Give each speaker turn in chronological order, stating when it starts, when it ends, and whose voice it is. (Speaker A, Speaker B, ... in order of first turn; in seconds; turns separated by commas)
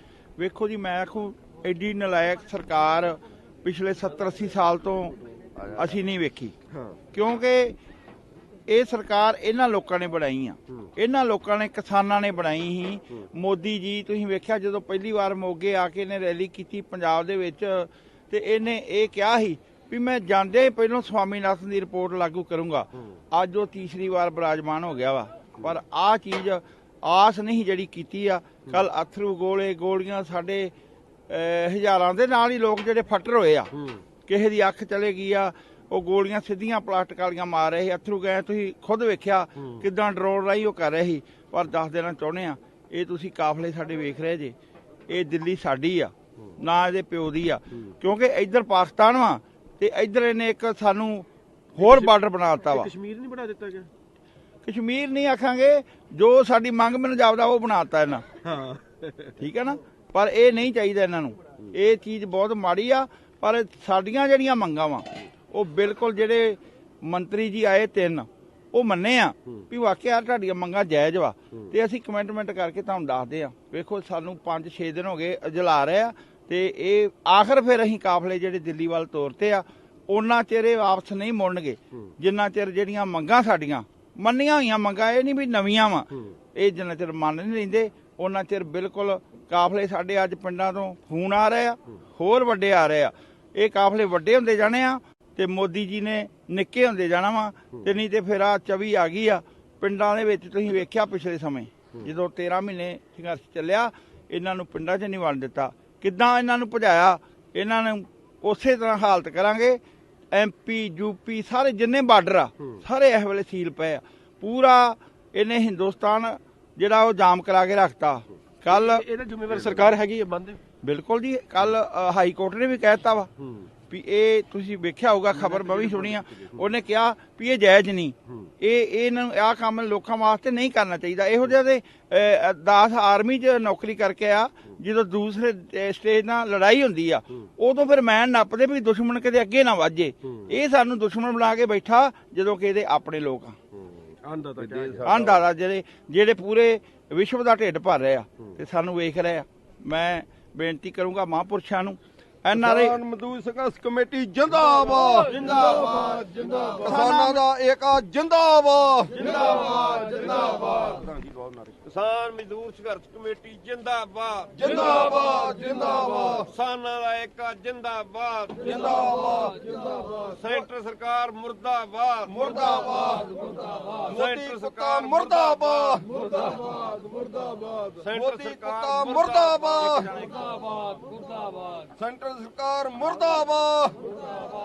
Speaker A: 0.4-6.5, Speaker A: 7.1-7.8, Speaker A: 8.7-30.7, Speaker A: 31.3-33.7, Speaker A: 34.3-44.5, Speaker A: 45.1-52.9, Speaker B: 51.8-52.1, Speaker B: 52.6-53.9, Speaker A: 54.6-58.2, Speaker B: 58.4-58.8, Speaker A: 59.4-109.8, Speaker A: 110.3-119.0, Speaker B: 118.7-120.6, Speaker A: 120.8-123.3, Speaker A: 123.9-143.6, Speaker B: 125.4-126.2, Speaker B: 144.3-145.1, Speaker C: 144.6-145.4, Speaker A: 145.0-153.0, Speaker C: 152.6-161.7, Speaker A: 155.3-156.1, Speaker A: 156.7-157.4, Speaker D: 161.8-165.2, Speaker C: 164.5-166.5, Speaker D: 166.4-168.9, Speaker C: 168.6-170.2, Speaker D: 170.2-173.0, Speaker C: 172.3-173.4, Speaker D: 173.9-176.0, Speaker C: 174.0-180.1, Speaker D: 178.0-180.1, Speaker C: 181.9-184.0